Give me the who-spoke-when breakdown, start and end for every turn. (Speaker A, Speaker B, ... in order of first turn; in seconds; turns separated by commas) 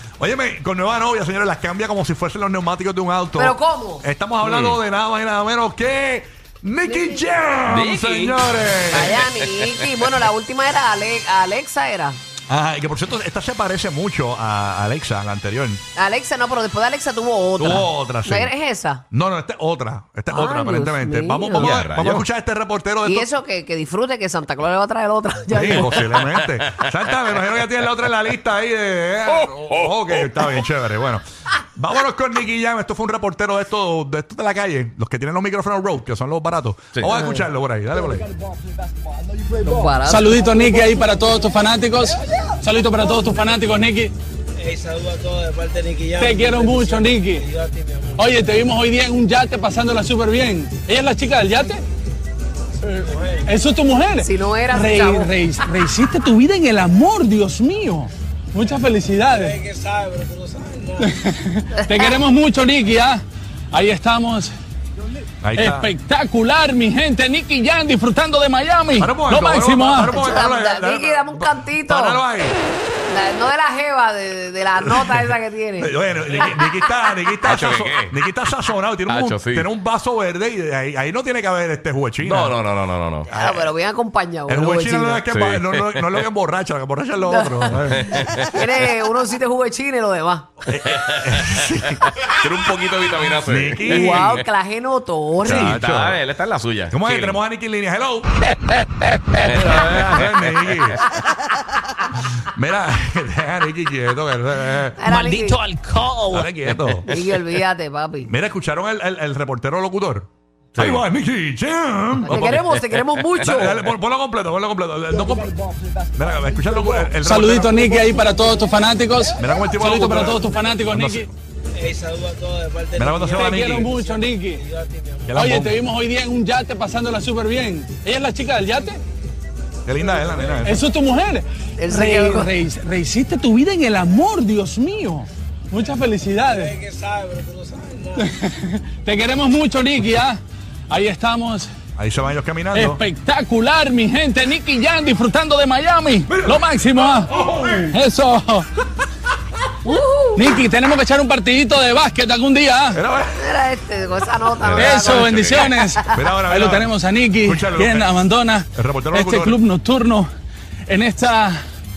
Speaker A: 0.2-9.2, Speaker B: 3.4-4.1, Speaker C: 4.4-4.8, Speaker B: 6.9-7.2, Speaker C: 7.7-9.9, Speaker B: 8.9-12.2, Speaker A: 12.5-15.8, Speaker B: 15.9-19.0, Speaker A: 17.6-18.5, Speaker A: 19.1-23.3, Speaker B: 20.3-21.8, Speaker C: 21.6-22.3, Speaker B: 23.1-26.0, Speaker A: 25.5-31.2, Speaker C: 29.4-30.5, Speaker A: 31.8-38.3, Speaker B: 37.1-37.4, Speaker B: 39.5-40.3, Speaker D: 40.0-44.1, Speaker E: 44.6-46.8, Speaker D: 46.2-47.5, Speaker E: 47.4-48.2, Speaker D: 48.2-51.8, Speaker D: 53.4-59.6, Speaker B: 54.2-55.5, Speaker E: 59.6-61.0, Speaker D: 61.0-63.2, Speaker D: 63.7-64.5, Speaker A: 65.4-65.9, Speaker D: 65.5-70.2, Speaker A: 69.0-72.6, Speaker B: 70.1-72.2, Speaker B: 73.1-76.7, Speaker A: 74.8-82.6, Speaker C: 77.4-78.1, Speaker C: 79.1-79.7, Speaker C: 82.2-83.3, Speaker A: 83.3-83.7, Speaker B: 83.3-85.2, Speaker A: 84.5-88.3, Speaker C: 85.2-86.2, Speaker B: 87.2-90.5, Speaker C: 87.9-88.7, Speaker A: 90.7-92.0, Speaker C: 90.8-91.5, Speaker C: 92.2-94.5, Speaker A: 93.4-94.4, Speaker B: 93.8-95.8, Speaker C: 95.4-97.4, Speaker A: 95.4-96.2, Speaker A: 96.9-98.3, Speaker C: 99.4-100.2, Speaker A: 99.5-101.0, Speaker A: 102.6-105.0, Speaker B: 105.0-105.7, Speaker C: 105.5-106.5, Speaker A: 106.3-107.2, Speaker B: 107.1-108.3, Speaker A: 108.2-112.6, Speaker C: 110.8-111.0, Speaker B: 112.2-113.8, Speaker C: 112.4-113.5, Speaker A: 113.4-115.6, Speaker A: 116.2-117.9, Speaker D: 117.2-121.3, Speaker A: 119.4-121.3, Speaker E: 121.9-122.4, Speaker A: 123.0-123.9, Speaker D: 123.2-124.7, Speaker A: 125.2-125.8, Speaker D: 125.3-129.0, Speaker A: 129.9-130.8, Speaker D: 130.6-136.8, Speaker B: 131.8-132.5, Speaker E: 136.9-137.4, Speaker D: 138.2-140.4, Speaker D: 140.9-141.7, Speaker A: 142.0-143.0, Speaker D: 142.7-148.7, Speaker A: 146.3-147.8, Speaker B: 149.8-150.6, Speaker D: 150.4-153.0, Speaker A: 152.9-153.5, Speaker B: 153.4-156.1, Speaker C: 154.6-155.7, Speaker D: 154.7-160.3, Speaker A: 156.1-159.6, Speaker D: 160.9-161.6